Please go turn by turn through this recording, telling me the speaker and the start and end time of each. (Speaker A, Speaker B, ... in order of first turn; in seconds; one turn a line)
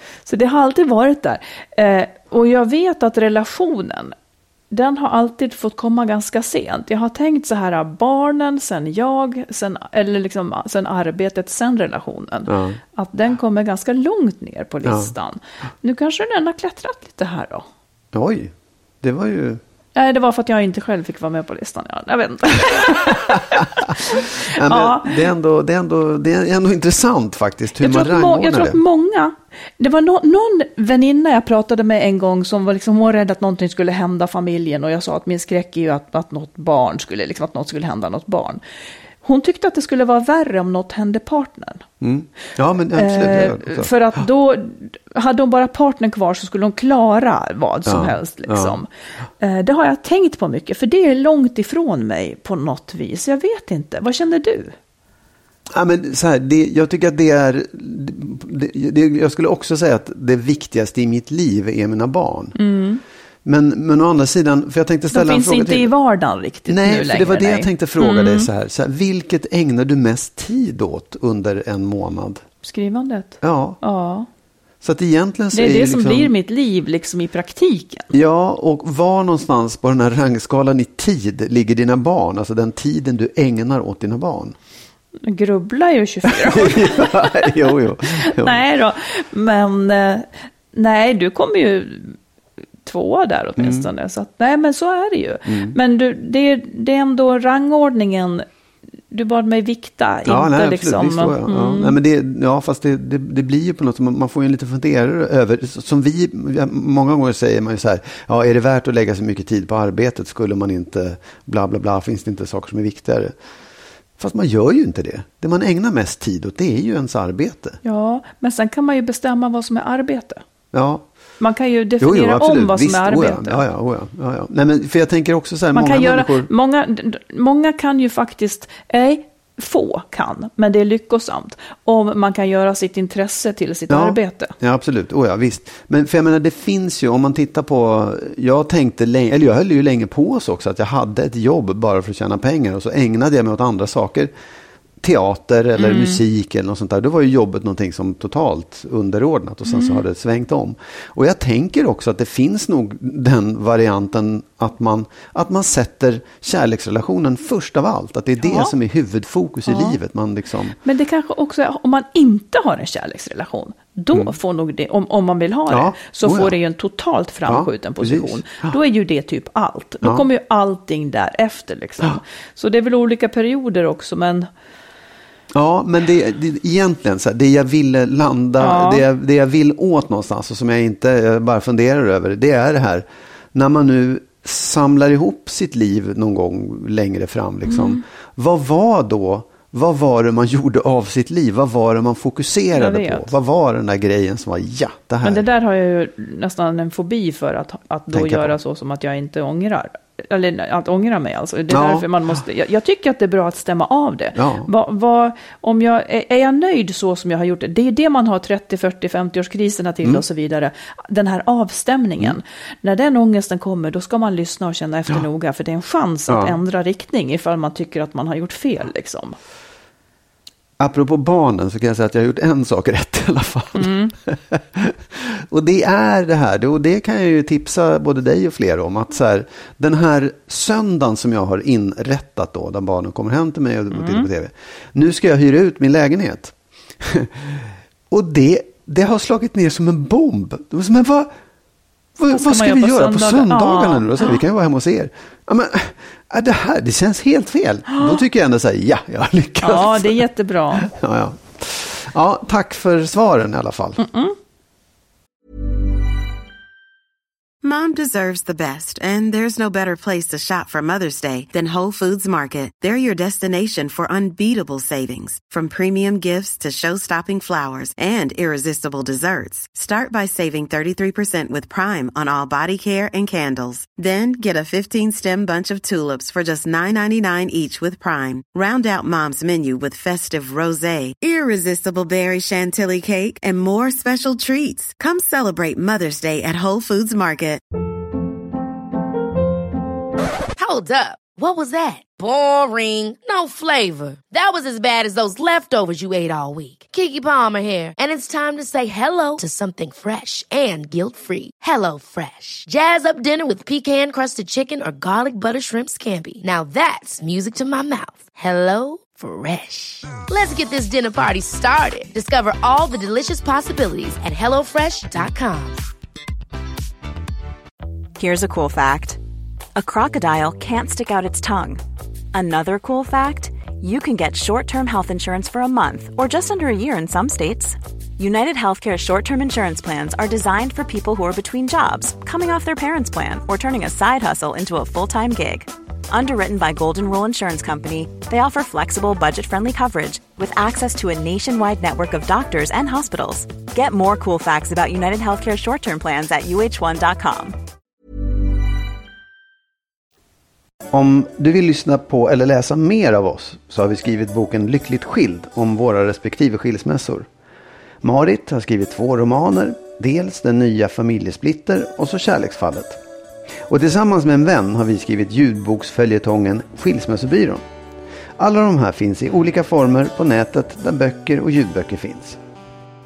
Speaker A: 0.3-4.1
Speaker A: 4.7-17.7
Speaker B: 12.5-12.8
Speaker B: 14.8-15.1
Speaker B: 18.1-19.6
Speaker A: 19.9-25.2
Speaker B: 24.5-28.8
Speaker A: 27.8-38.6
Speaker A: 39.2-41.9
Speaker B: 42.0-43.9
Speaker A: 43.0-54.8
Speaker B: 47.9-48.8
Speaker B: 55.7-62.5
Speaker A: 62.6-63.0
Speaker B: 63.5-65.9
Speaker A: 65.1-68.5
Speaker B: 66.7-72.4
Speaker A: 72.6-74.3
Speaker B: 73.4-73.8
Speaker B: 74.8-76.3
Speaker A: 75.5-78.1
Speaker B: 78.1-84.6
Speaker A: 85.2-87.5
Speaker B: 86.3-88.6
Speaker A: 88.2-92.2
Speaker A: 92.8-98.5
Speaker B: 93.6-93.9
Speaker B: 95.5-95.8
Speaker A: 99.1-102.0
Speaker B: 100.3-113.3
Speaker B: 114.2-117.8
Speaker A: 117.8-120.4
Speaker B: 120.7-121.0
Speaker A: 121.4-123.7
Speaker B: 122.0-126.5
Speaker A: 125.7-134.5
Speaker B: 133.9-144.3
Speaker B: 145.0-160.8
Speaker A: 145.8-146.2
Speaker A: 149.7-150.0
Speaker A: 158.4-158.7
Speaker A: 159.7-160.0
Speaker A: 160.8-174.5
Speaker B: 165.7-166.6
Speaker B: 167.5-168.8
Speaker B: 175.5-195.5
Speaker A: 178.6-179.1
Speaker A: 187.7-188.0
Speaker A: 192.7-193.3
Speaker A: 195.2-219.4
Speaker B: 198.1-198.6
Speaker B: 201.7-202.1
Speaker B: 204.3-204.7
Speaker B: 216.3-216.6
Speaker B: 220.8-241.3
Speaker A: 223.8-224.1
Speaker A: 233.9-234.3
Speaker B: 242.2-254.0
Speaker A: 242.3-244.4
Speaker A: 247.9-248.2
Speaker A: 249.6-250.9
Speaker A: 254.0-254.3
Speaker C: 257.6-287.6
Speaker D: 290.6-315.8
Speaker E: 318.2-319.2
Speaker E: 319.8-321.8
Speaker E: 322.3-347.6
Speaker B: 350.9-357.3
Speaker B: 358.0-363.0
Speaker B: 363.7-367.6
Speaker B: 368.4-372.4